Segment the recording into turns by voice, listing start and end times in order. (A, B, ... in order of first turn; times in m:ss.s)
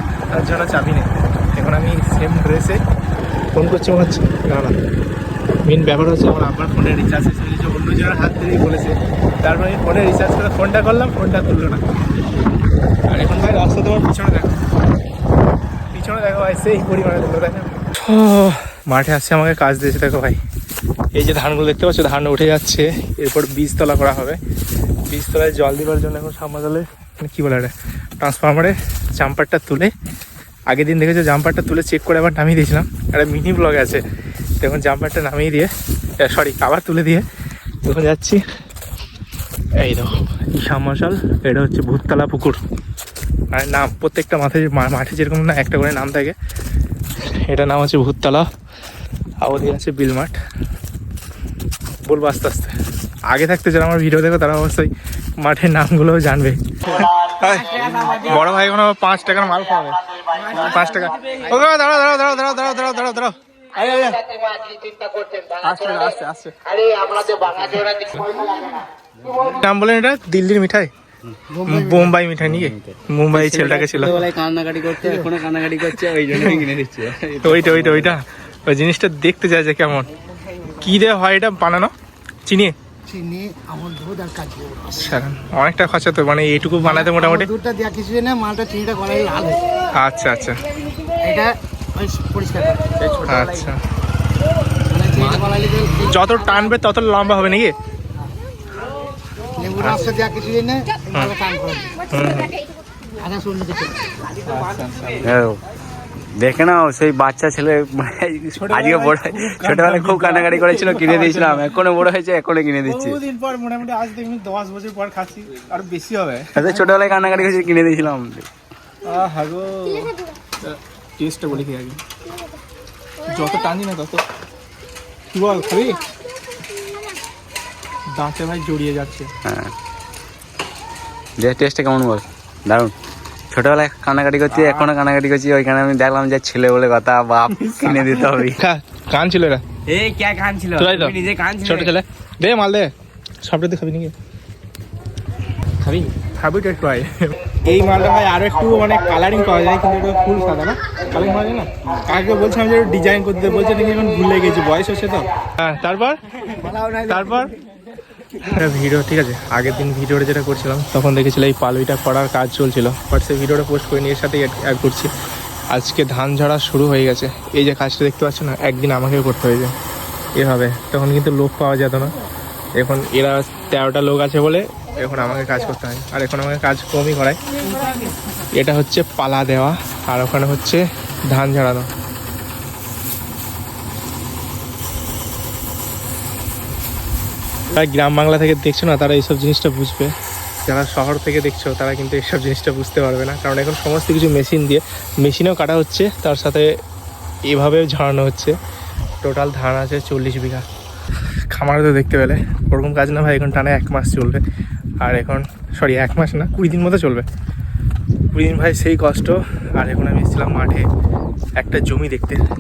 0:00.3-0:02.8 A
0:03.5-0:04.8 A
0:05.6-0:11.8 A
0:13.1-0:14.7 A
0:15.9-0:20.4 A
0:21.2-0:24.4 A
0:25.1-0:29.9 A
0:30.7-0:34.0 A
0:34.6-0:37.2 A
0:37.8-0:38.4 A
0:39.8-0:42.6 A
0:43.5-0:46.4 A
0:47.2-0:48.5 A
0:49.4-0:50.4 A
0:52.0-0:52.7 A
0:53.3-1:04.3 A
0:57.8-0:58.2 B
1:01.2-1:01.5 B
1:04.9-1:05.2 C
1:05.6-1:06.6 A
1:06.9-1:07.9 B
1:07.9-1:08.4 A
1:09.5-1:10.9 A
1:11.5-1:12.1 C
1:11.6-1:14.2 A
1:12.4-1:18.2 B
1:16.3-1:16.6 A
1:17.4-1:20.1 A
1:20.8-1:21.9 A
1:22.5-1:22.8 A
1:23.1-1:25.0 C
1:24.9-1:27.5 A
1:26.9-1:29.7 C
1:29.9-1:30.6 A
1:31.2-1:32.8 C
1:33.0-1:33.7 B
1:33.3-1:33.8 A
1:34.9-1:36.1 C
1:35.2-1:35.6 B
1:36.0-1:37.8 A
1:39.6-1:42.1 C
1:39.8-1:40.1 A
1:42.1-1:42.5 A
1:43.2-1:44.2 C
1:44.5-1:45.4 A
1:45.2-1:45.6 B
1:46.4-1:53.2 B
1:48.6-1:51.9 A
1:52.8-1:57.6 A
1:56.6-1:58.5 B
1:59.0-2:02.0 A
2:03.2-2:04.2 A
2:05.3-2:06.0 A
2:08.1-2:09.3 A
2:09.5-2:09.7 B
2:11.4-2:12.9 B
2:13.5-2:18.6 B
2:14.5-2:14.9 A
2:17.8-2:19.6 A
2:19.9-2:22.0 B
2:20.8-2:22.9 A
2:23.4-2:24.1 A
2:26.1-2:36.2 A
2:36.6-2:37.0 C
2:37.1-2:37.5 A
2:38.4-2:45.1 A
2:45.7-2:49.8 A
2:50.4-2:52.1 A
2:52.8-2:57.4 A
2:58.5-3:01.9 A
3:07.7-3:16.7 A
3:17.5-3:18.6 A
3:19.2-3:20.6 A
3:21.5-3:24.4 A
3:25.0-3:27.3 A
3:28.3-3:30.9 A
3:31.6-3:32.4 A